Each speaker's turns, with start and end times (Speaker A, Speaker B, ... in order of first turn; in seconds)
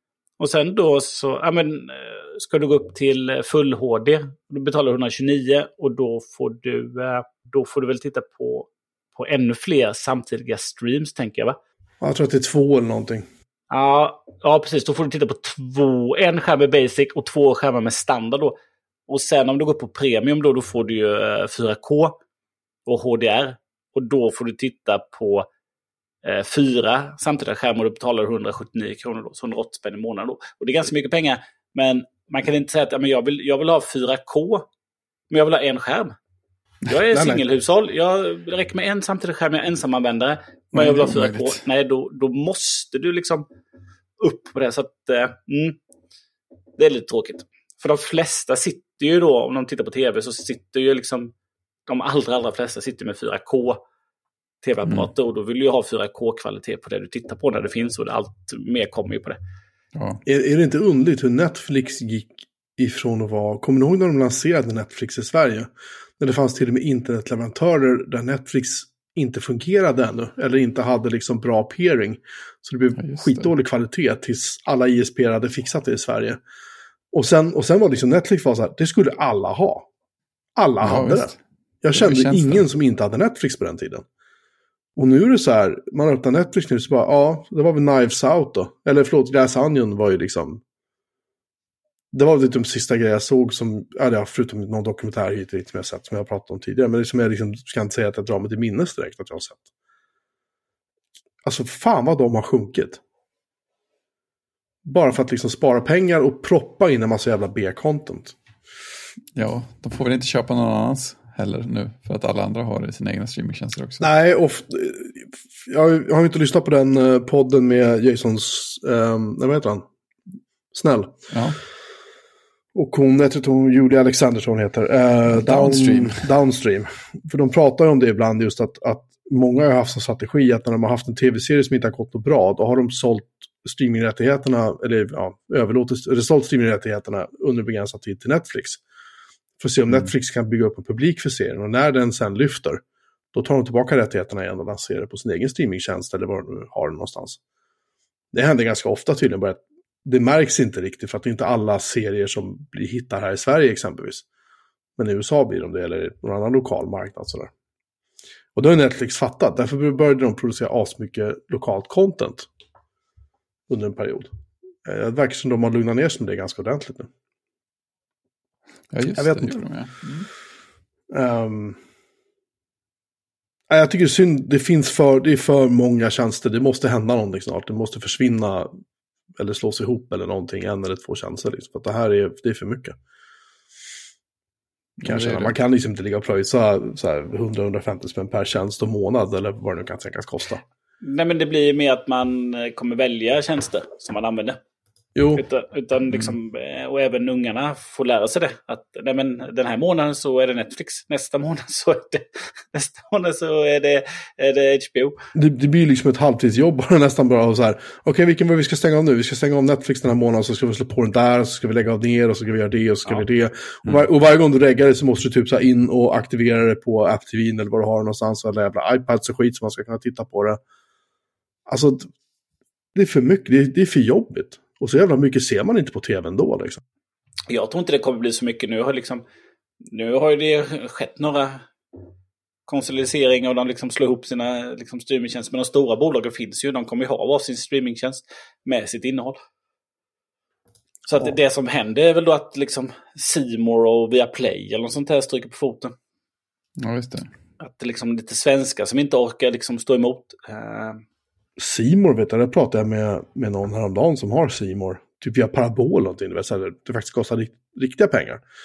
Speaker A: 0.4-11.6, 13.7-22.2, 22.9-25.5, 26.2-34.7, 35.3-36.1, 36.9-43.4, 44.2-45.8, 46.8-51.3, 51.9-53.8, 54.6-59.4, 191.0-194.6, 195.3-205.2, 227.5-229.2, 229.8-231.7, 232.7-239.4, 241.1-245.9, 247.6-251.0
Speaker B: 12.0-13.2, 37.1-37.4, 60.2-76.4, 77.1-79.9, 80.5-81.3, 81.8-84.0, 85.0-90.6, 92.1-99.6, 101.4-103.0, 104.8-108.3, 114.0-119.8, 120.7-121.2, 122.7-138.8, 139.6-142.8, 143.3-147.4, 148.3-154.2, 155.0-157.5, 158.5-162.5, 163.7-164.3, 164.8-167.1, 169.2-169.5, 171.1-171.8, 173.7-178.7, 179.3-183.0, 185.0-190.6, 195.1-195.4, 205.3-220.6, 221.7-222.1, 222.9-226.8, 251.6-258.4
Speaker C: 40.7-41.6, 59.9-60.2, 73.0-73.5, 80.8-81.4, 81.9-82.7, 109.3-114.1, 121.3-121.6, 125.3-126.3, 168.9-170.3, 185.0-185.5, 246.8-247.3